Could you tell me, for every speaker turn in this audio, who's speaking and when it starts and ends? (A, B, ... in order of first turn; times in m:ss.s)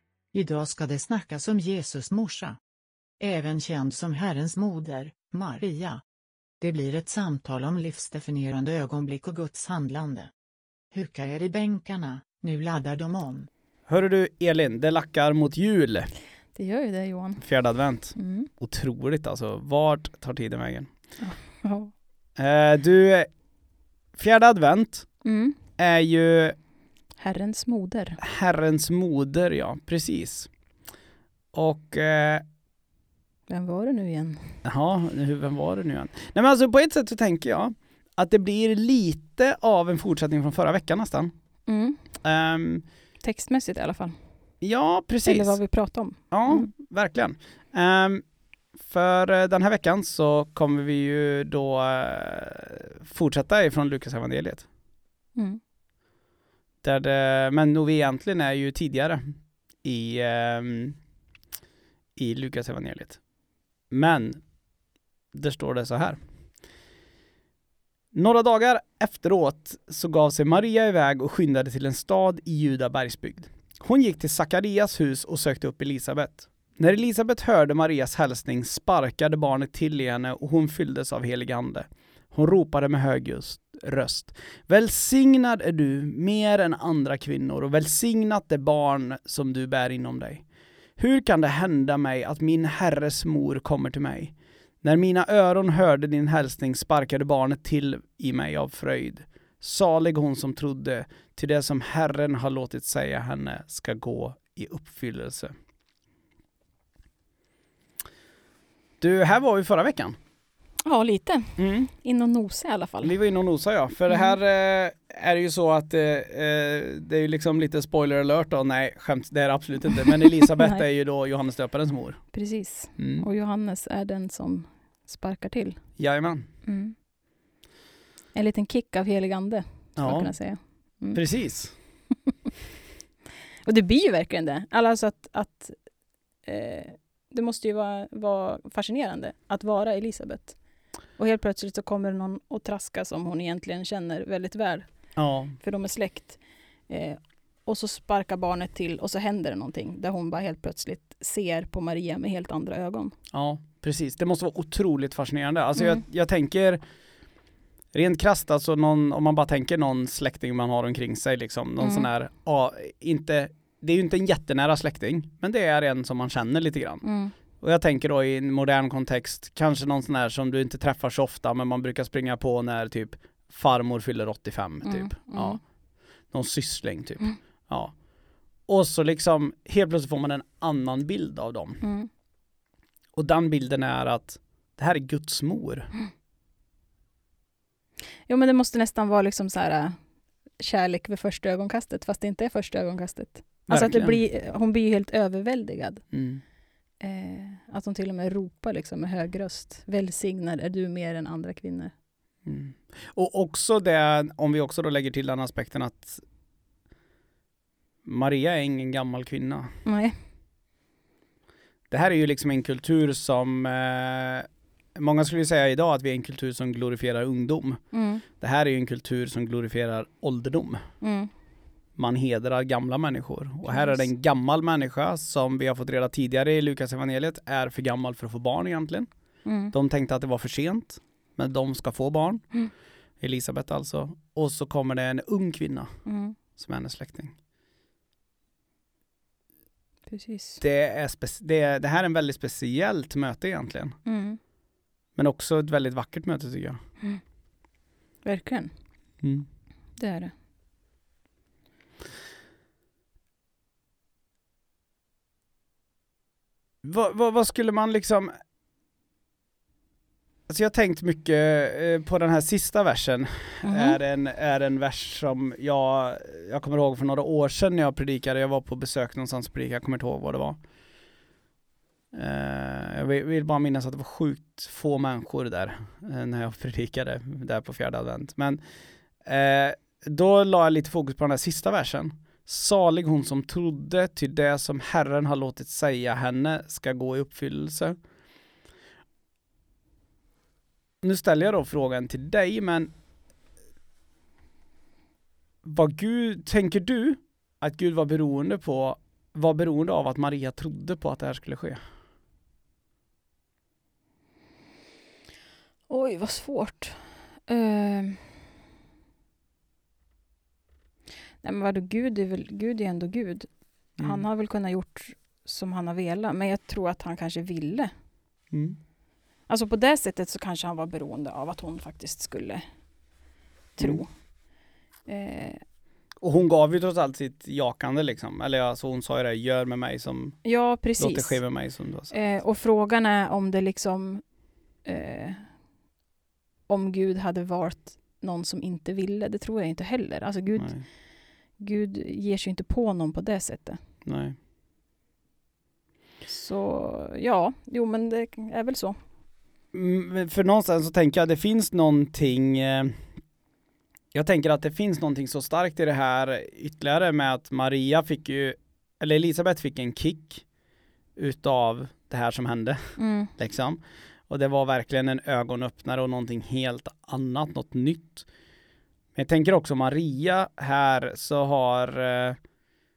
0:00.3-0:02.6 A
0:03.2-0:06.0 A
0:06.6-0:10.3 A
0:10.9-0:13.5 A
0:13.9-0:16.1 B
0:16.6-0:17.4 C
0:17.4-0:20.9 B
0:18.1-0:18.5 C
0:21.2-0:21.9 C
0:22.4-0:23.3 B
0:24.2-0:25.1 B
0:25.2-0:25.6 C
0:25.8-0:26.6 B
0:27.2-0:28.2 C
0:28.2-0:30.5 B
0:31.5-0:32.4 B
0:33.5-0:34.6 C
0:34.6-0:41.3 B
0:41.7-0:42.0 C
0:42.2-0:42.8 B
0:43.2-0:44.1 C
0:44.6-0:45.6 B
0:45.2-0:46.7 C
0:46.3-0:48.2 B
0:48.8-0:54.6 B
0:56.8-1:01.0 B
1:02.2-1:03.2 B
1:03.9-1:04.4 B
1:05.3-1:06.2 B
1:08.1-1:30.4 B
1:31.0-1:45.5 B
1:49.0-1:50.2 B
1:50.8-1:53.1 C
1:51.6-1:51.9 B
1:53.0-2:02.2 B
2:00.4-2:00.8 C
2:02.3-2:05.8 C
2:03.0-2:03.2 B
2:06.0-2:06.5 B
2:06.6-2:07.0 C
2:08.3-2:11.2 C
2:10.0-2:10.3 B
2:11.1-2:11.7 B
2:13.6-2:15.8 C
2:16.4-2:20.6 C
2:21.2-2:24.9 C
2:25.2-2:25.6 B
2:25.6-2:33.1 C
2:33.3-2:36.8 B
2:37.9-2:47.0 B
2:41.8-2:42.1 C
2:47.0-2:47.3 C
2:47.6-2:55.6 B
2:54.8-2:55.6 C
2:56.3-2:57.9 B
2:58.7-3:01.8 B
3:01.8-3:02.1 C
3:03.1-3:05.9 B
3:08.3-3:10.0 C
3:10.6-3:16.0 C
3:13.7-3:14.2 B
3:16.1-3:16.4 B
3:17.0-3:21.9 C
3:22.4-3:26.2 B
3:28.0-3:29.7 B
3:29.8-3:30.1 C
3:31.9-3:37.8 B
3:37.9-3:38.2 C
3:38.4-3:40.8 B
3:41.0-3:41.3 C
3:42.0-3:49.1 B
3:43.7-3:44.0 C
3:49.4-3:49.7 C
3:49.7-3:52.4 B
3:53.2-3:55.9 B
3:56.0-3:56.4 C
3:56.6-3:57.4 B
4:00.1-4:00.6 C
4:00.6-4:03.9 B
4:04.0-4:04.4 C
4:05.2-4:06.8 B
4:08.2-4:08.7 C
4:10.0-4:10.3 C
4:16.8-4:18.3 B
4:20.5-4:30.6 B
4:23.6-4:24.0 C
4:32.1-4:38.6 B
4:39.2-4:48.0 B
4:51.0-4:52.9 B
4:55.6-5:01.8 B
5:05.9-5:08.2 C
5:11.4-5:17.9 C
5:14.0-5:14.2 B
5:18.5-5:18.8 B
5:19.5-5:22.6 C
5:23.8-5:24.1 C
5:23.8-5:24.0 B
5:25.1-5:25.6 C
5:26.2-5:30.4 B
5:30.4-5:31.4 C
5:31.0-5:32.1 B
5:32.1-5:34.2 C
5:34.8-5:35.5 C
5:36.7-5:40.7 C
5:40.6-5:40.8 B
5:41.6-5:43.8 C
5:44.0-5:44.4 B
5:46.2-5:49.0 C
5:49.7-5:53.0 B
5:54.1-6:00.4 B
6:01.2-6:08.3 B
6:03.0-6:03.3 C
6:09.1-6:12.4 B